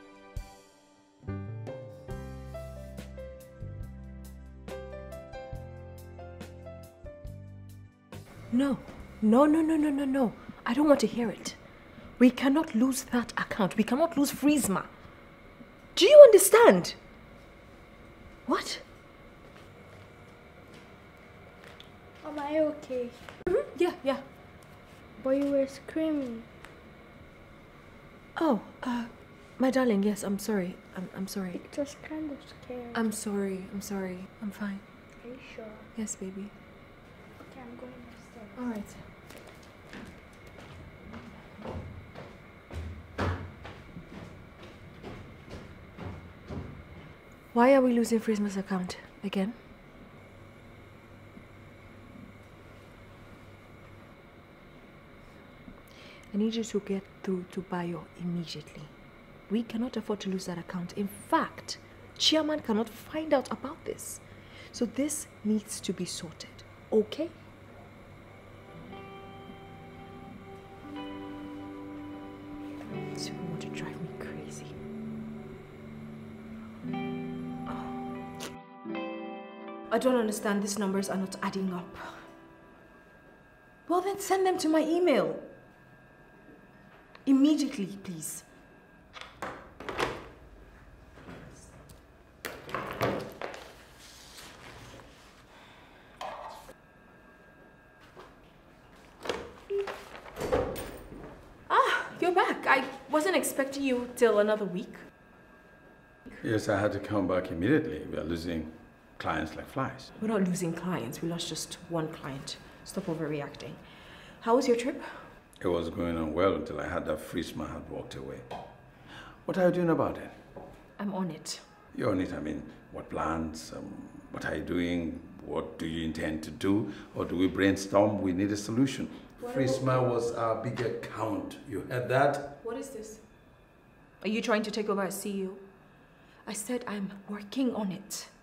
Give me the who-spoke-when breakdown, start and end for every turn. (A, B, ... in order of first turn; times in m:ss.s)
0:08.5-0:11.6 A
0:12.2-0:14.9 A
0:16.0-0:17.0 A
0:18.5-0:18.8 A
0:22.2-0:23.2 B
0:23.5-0:24.2 A
0:25.2-0:26.5 B
0:28.4-0:31.6 A
0:31.7-0:33.0 B
0:32.9-0:34.8 A
0:35.2-0:35.9 B
0:36.0-0:36.5 A
0:37.5-0:38.6 B
0:38.6-0:39.0 A
0:47.5-0:49.6 A
0:56.3-0:58.9 A
0:59.5-1:07.3 A
1:13.2-1:14.7 A
1:17.7-1:17.9 A
1:19.9-1:22.2 A
1:23.9-1:25.5 A
1:27.3-1:28.5 A
1:41.7-1:45.0 A
1:46.4-1:50.1 C
1:50.2-1:53.8 A
1:54.4-1:55.3 A
1:55.6-1:58.5 C
1:59.4-2:00.4 C
2:01.0-2:01.6 A
2:01.9-2:12.6 C
2:09.4-2:10.0 A
2:12.6-2:13.2 A
2:14.2-2:15.6 A
2:16.5-2:18.3 A